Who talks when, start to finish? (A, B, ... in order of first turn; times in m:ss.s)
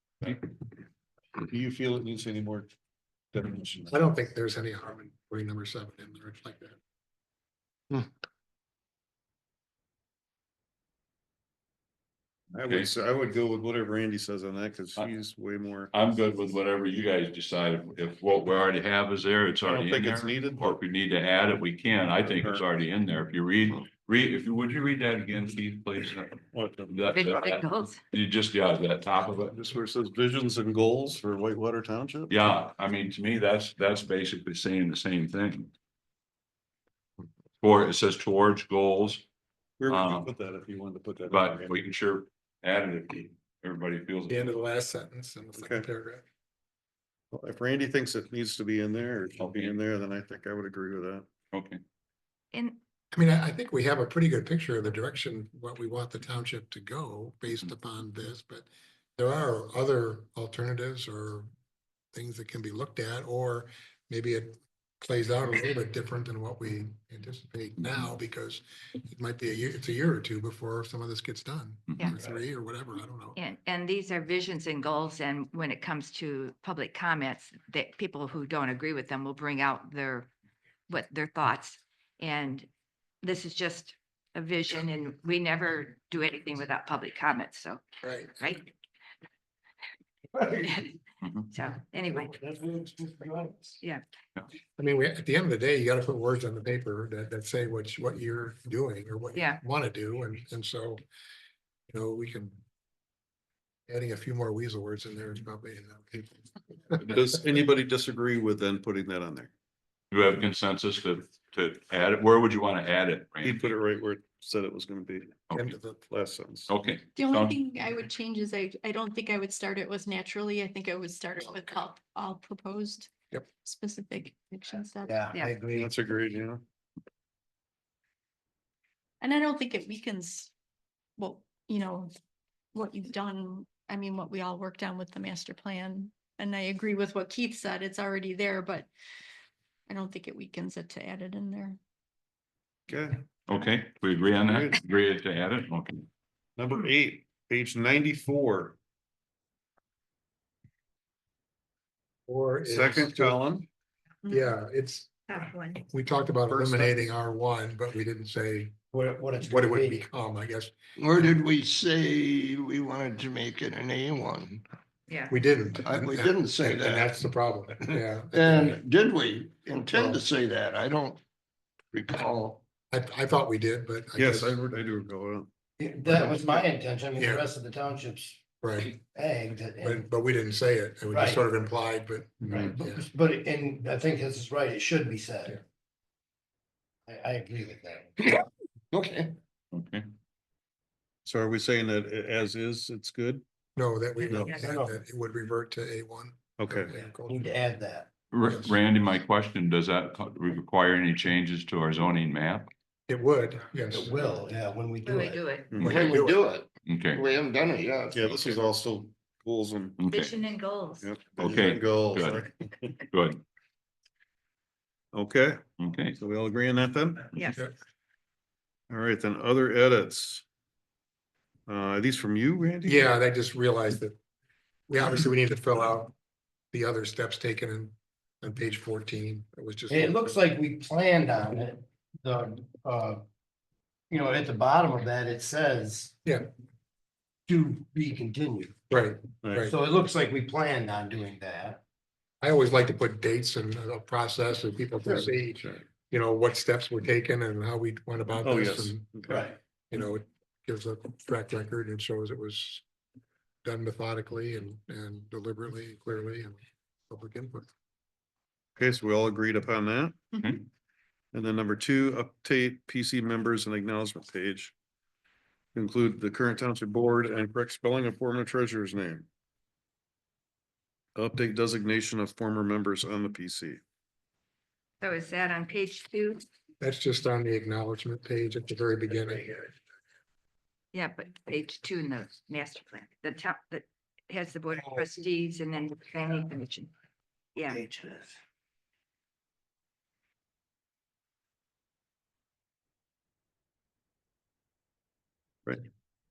0:01.4-0:02.7 A
0:03.3-0:04.0 A
0:03.9-0:06.8 B
0:12.5-0:15.9 A
0:15.9-0:29.5 C
0:19.6-0:20.7 A
0:22.3-0:22.6 A
0:26.5-0:27.4 A
0:27.1-0:28.0 D
0:29.5-0:32.3 A
0:32.3-0:35.7 C
0:37.6-0:39.2 C
0:39.8-0:41.8 A
0:39.9-0:40.3 C
0:41.3-0:44.6 C
0:44.3-0:46.2 B
0:45.5-0:45.8 A
0:47.3-0:51.3 A
0:51.5-0:51.8 C
0:52.5-0:52.8 D
0:53.1-1:01.5 B
1:02.1-1:13.4 B
1:13.4-1:20.3 D
1:20.9-1:22.7 D
1:23.2-1:27.8 D
1:28.0-1:28.4 B
1:28.4-1:28.7 D
1:30.3-1:30.8 E
1:30.6-1:31.0 D
1:31.5-1:32.3 D
1:32.1-1:33.8 E
1:34.8-1:41.0 B
1:39.3-1:39.6 D
1:41.9-1:42.6 B
1:43.9-1:47.1 B
1:47.0-1:49.5 A
1:50.1-1:53.6 C
1:53.4-1:55.4 A
1:55.5-1:56.0 B
1:56.0-1:56.7 A
1:56.7-1:57.6 C
1:57.2-2:03.1 F
2:03.6-2:05.2 F
2:05.0-2:06.0 E
2:05.7-2:06.6 A
2:09.2-2:10.5 F
2:11.2-2:12.1 F
2:12.7-2:18.9 F
2:19.9-2:21.8 F
2:22.9-2:23.2 A
2:23.5-2:26.1 C
2:24.4-2:24.8 A
2:26.6-2:28.8 A
2:32.3-2:33.4 B
2:32.6-2:33.6 A
2:34.3-2:35.2 B
2:35.3-2:35.8 D
2:35.9-2:38.7 B
2:36.5-2:37.1 A
2:38.9-2:40.0 E
2:39.4-2:40.7 B
2:41.0-2:44.6 G
2:45.1-2:45.4 D
2:45.3-2:48.8 B
2:45.8-2:47.2 G
2:47.8-2:51.2 G
2:49.9-2:50.2 B
2:51.9-2:52.6 G
2:52.9-2:54.5 B
2:54.2-2:55.5 A
2:55.8-2:58.4 E
2:57.2-2:57.5 B
2:58.6-2:58.9 B
2:58.9-3:00.1 E
2:59.8-3:03.0 B
3:01.1-3:01.4 E
3:02.4-3:05.6 E
3:07.1-3:08.2 E
3:08.2-3:09.3 G
3:09.7-3:10.0 C
3:11.2-3:13.4 A
3:13.8-3:17.5 B
3:14.2-3:14.6 D
3:14.3-3:14.5 A
3:14.5-3:15.0 E
3:16.6-3:16.9 A
3:17.2-3:18.1 E
3:18.3-3:22.7 C
3:18.4-3:18.7 B
3:23.1-3:24.3 B
3:23.9-3:25.4 E
3:25.0-3:25.8 D
3:25.7-3:26.0 A
3:25.8-3:26.4 B
3:25.8-3:28.5 G
3:26.8-3:27.2 C
3:28.1-3:30.0 A
3:30.0-3:30.3 C
3:30.1-3:31.1 D
3:31.0-3:33.0 A
3:31.4-3:32.4 C
3:33.1-3:33.4 C
3:35.1-3:35.6 A
3:35.8-3:36.2 C
3:36.2-3:37.3 A
3:37.3-3:37.6 D
3:38.9-3:40.4 A
3:41.7-3:43.1 A
3:42.8-3:44.2 B
3:44.9-3:46.1 B
3:46.7-3:50.4 B
3:49.9-3:53.2 E
3:54.1-3:56.1 E
3:57.5-3:58.7 E
3:58.9-3:59.7 B
3:59.4-3:59.7 A
3:59.6-4:01.8 E
4:02.4-4:09.1 B
4:05.1-4:05.8 A
4:08.4-4:09.5 A
4:09.3-4:09.6 E
4:09.9-4:12.8 B
4:13.6-4:16.6 B
4:17.1-4:17.7 B
4:18.8-4:20.3 A
4:20.3-4:20.6 C
4:21.3-4:24.7 A
4:25.7-4:29.2 A
4:31.2-4:33.8 A
4:35.0-4:36.4 D
4:36.8-4:39.7 B
4:40.9-4:46.9 D
4:47.5-4:47.8 D
4:47.7-4:48.3 E